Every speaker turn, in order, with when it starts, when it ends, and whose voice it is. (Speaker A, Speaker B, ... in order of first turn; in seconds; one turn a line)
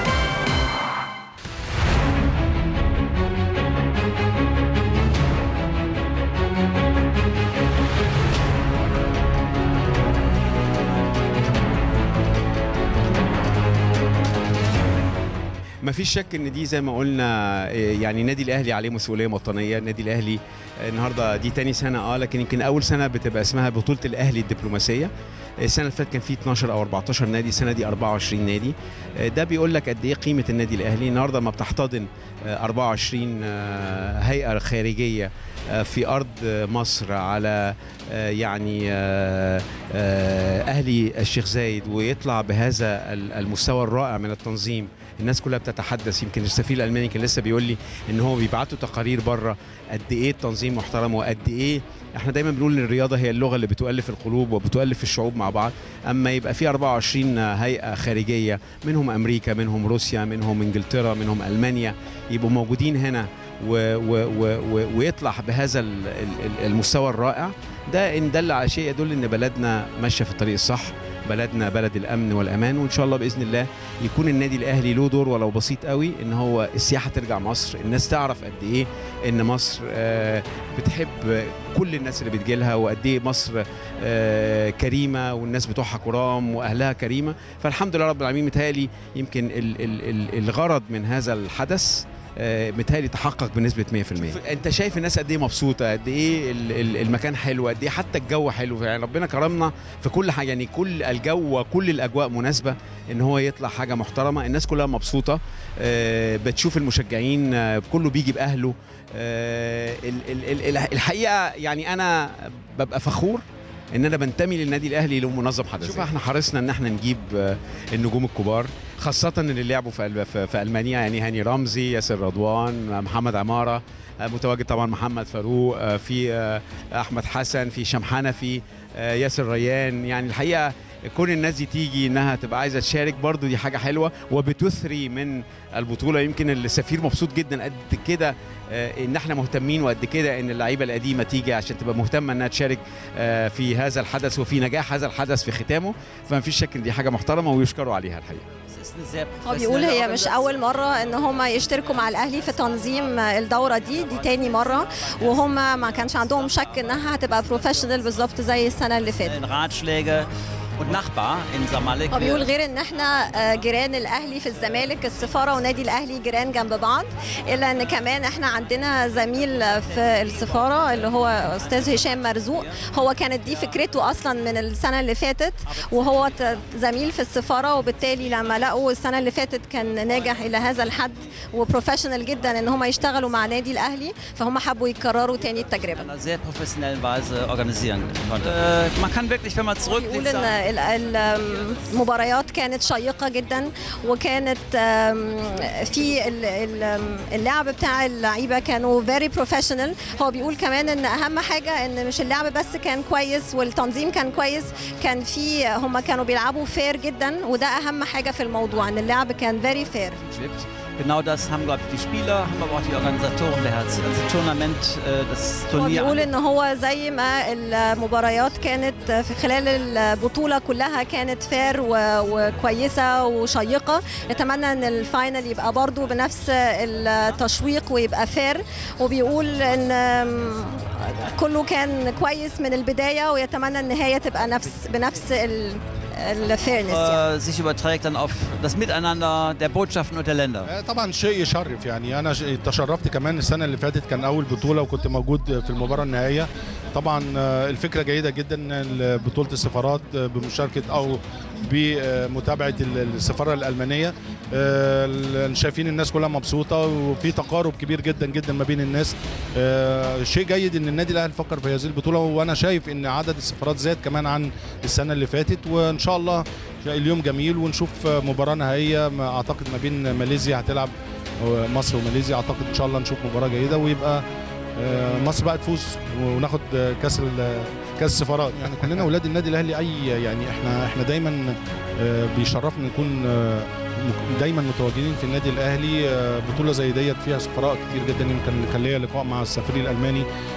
Speaker A: 15.8-25.1
Speaker A: 25.6-148.4
Speaker B: 148.7-158.4
Speaker C: 149.6-154.8
Speaker C: 155.3-159.3
Speaker B: 159.0-160.2
Speaker B: 160.8-162.5
Speaker C: 162.1-186.0
Speaker B: 165.1-165.6
Speaker B: 169.1-174.3
Speaker B: 175.6-177.1
Speaker B: 177.9-178.6
Speaker B: 185.3-190.5
Speaker C: 189.9-210.2
Speaker B: 210.2-216.3
Speaker C: 215.8-237.2
Speaker B: 236.8-240.7
Speaker D: 240.7-274.2
Speaker D: 274.8-290.2